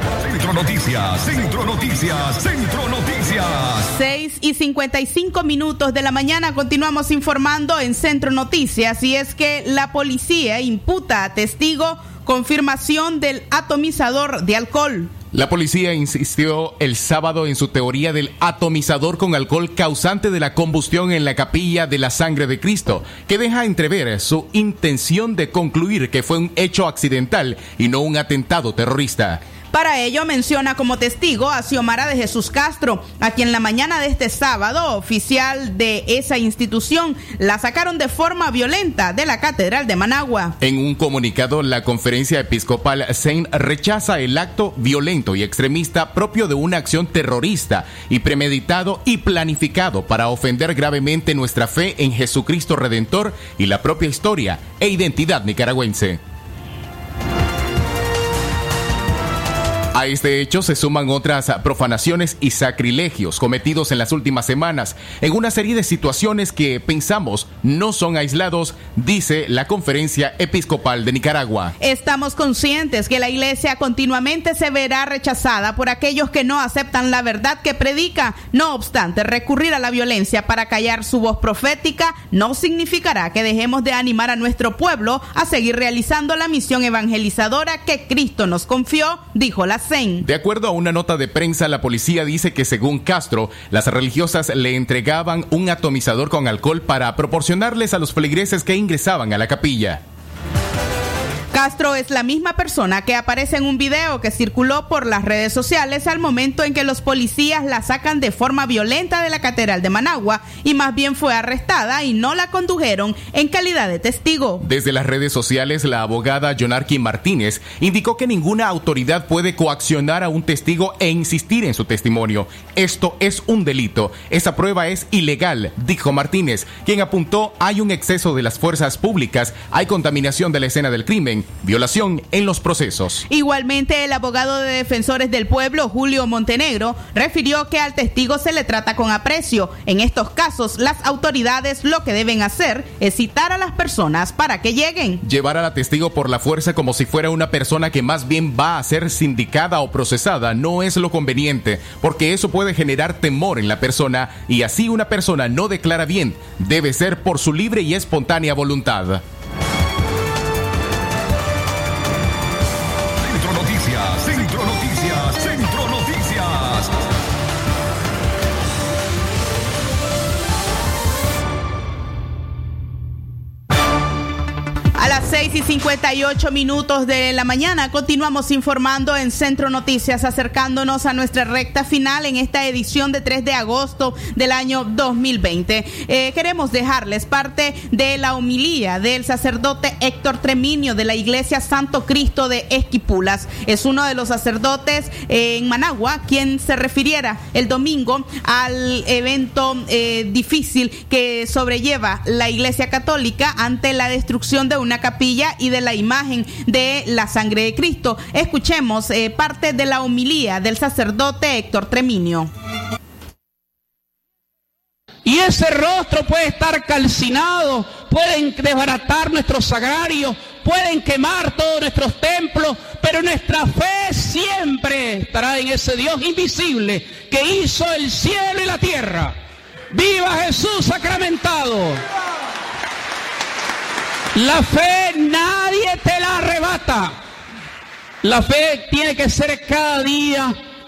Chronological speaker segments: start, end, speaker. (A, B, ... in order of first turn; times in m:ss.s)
0:00.2-0:03.9 A
0:03.9-0:15.1 B
0:15.3-0:29.4 C
0:29.7-0:40.5 B
0:40.6-0:56.2 C
0:59.9-1:11.7 C
1:11.8-1:30.2 B
1:30.2-1:40.0 C
1:41.5-1:54.6 B
1:54.6-2:13.2 C
2:13.3-2:25.2 B
2:25.2-2:39.2 C
2:43.2-2:46.9 A
2:55.0-3:32.5 B
3:35.2-3:49.4 D
3:49.9-3:52.0 D
3:54.3-3:57.2 D
3:58.2-4:00.6 D